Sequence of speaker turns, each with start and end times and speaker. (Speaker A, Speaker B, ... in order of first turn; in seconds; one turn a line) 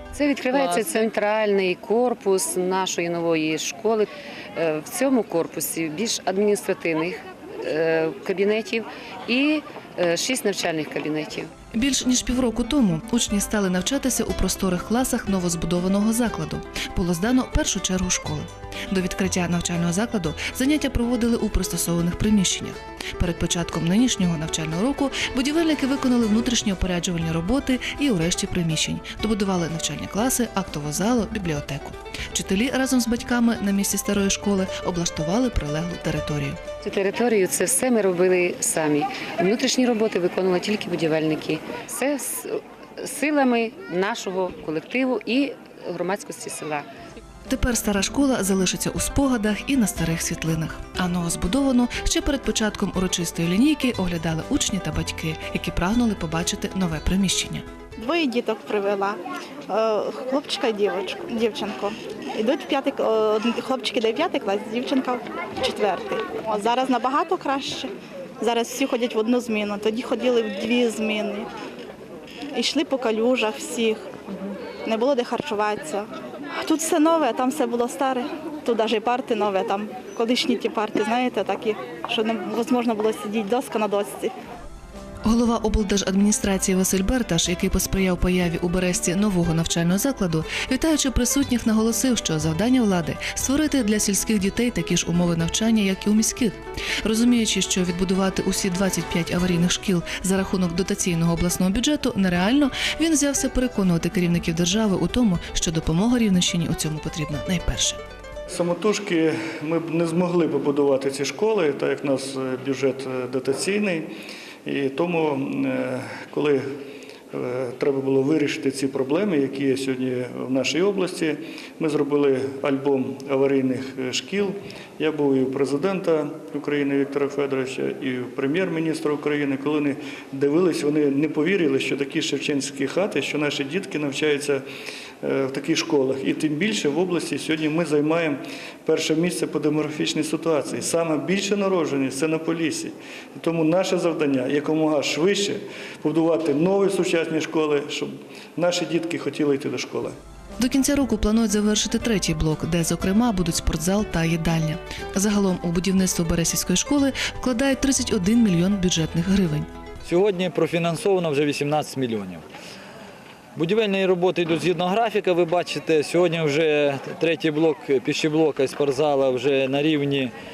Speaker A: 0.1-4.1
Speaker A: 4.6-11.4
Speaker B: 11.7-36.6
Speaker A: 36.8-42.4
Speaker A: 43.0-46.8
Speaker B: 47.5-57.6
Speaker C: 58.0-71.5
Speaker C: 72.5-74.1
Speaker C: 74.8-76.0
Speaker C: 76.6-84.3
Speaker B: 85.2-108.0
Speaker D: 108.5-114.1
Speaker D: 114.6-116.6
Speaker D: 117.3-134.6
Speaker D: 135.2-150.1
Speaker B: 150.6-159.7
Speaker E: 160.0-162.4
Speaker E: 163.5-170.3